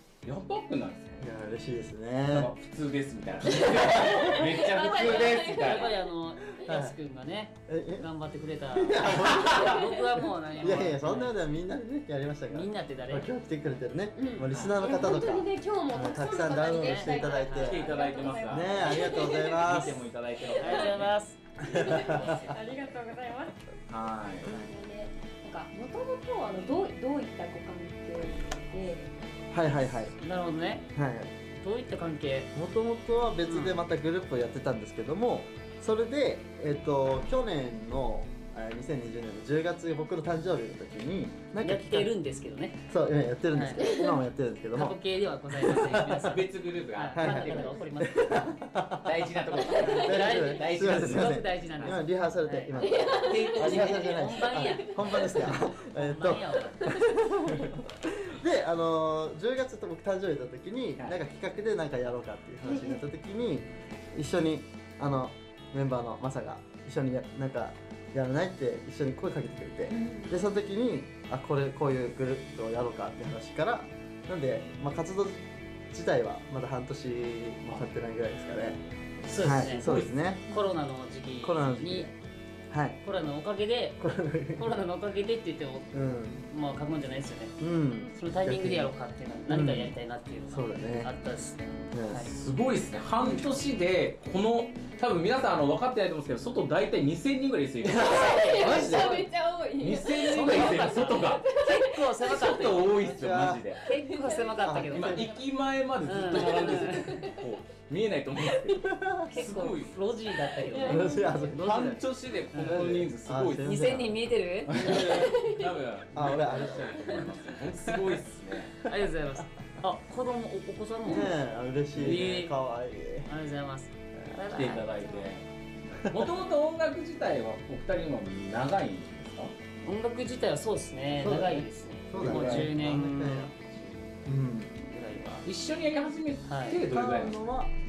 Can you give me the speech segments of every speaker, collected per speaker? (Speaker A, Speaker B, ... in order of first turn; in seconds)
Speaker A: 0.2-1.3, 2.3-5.9, 9.1-9.8, 14.5-15.0, 17.5-21.1, 23.9-24.5, 46.0-47.8, 49.0-52.0, 53.2-54.2, 79.8-80.1, 92.3-98.8, 99.8-101.5, 102.2-103.8, 104.9-110.0, 111.6-114.0, 114.7-118.8, 122.0-122.2, 124.5-125.5, 126.1-129.5, 132.2-132.7, 135.4-137.4
Speaker B: 1.2-2.5, 6.6-7.0, 7.7-8.1, 8.7-9.9, 10.6-17.9, 18.5-20.0, 21.6-22.4, 29.5-30.2, 30.9-31.3, 32.5-42.1, 42.9-45.0, 45.5-46.4, 47.1-78.8, 79.4-80.5, 81.4-82.1, 82.7-83.0, 84.0-84.7, 85.9-86.4, 87.6-88.9, 89.5-90.0, 90.5-91.1, 91.9-92.3, 97.8-99.3, 103.0-103.6, 104.6-105.3, 108.9-109.3, 110.8-112.0, 112.6-115.4, 116.1-117.3, 121.0-123.3, 131.2-133.5, 134.3-134.7, 136.8-137.7
Speaker C: 3.5-5.9, 14.2-19.8, 20.6-21.0, 21.6-23.6, 24.5-29.1, 43.8-44.2, 49.7-50.0, 52.8-53.9, 54.6-55.4, 56.9-57.1, 62.6-63.0, 69.9-70.4, 97.9-100.9, 103.9-105.2, 106.4-107.4, 110.7-111.4, 115.1-115.7
Speaker D: 5.5-11.3, 12.5-13.3, 16.7-17.8, 20.6-21.4, 30.2-30.9, 31.6-32.5, 33.5-33.8, 41.6-42.8, 43.5-43.9, 44.7-48.5, 50.0-52.7, 53.6-56.9, 79.2-79.9, 80.5-82.1, 83.0-86.0, 86.5-87.6, 88.1-92.3, 98.7-99.0, 100.2-102.9, 103.8-105.2, 106.1-107.2, 109.3-112.0, 112.5-113.0, 113.6-115.0, 118.9-121.3, 122.0-122.5, 123.3-125.0, 129.8-133.6, 134.8-135.5, 136.5-136.8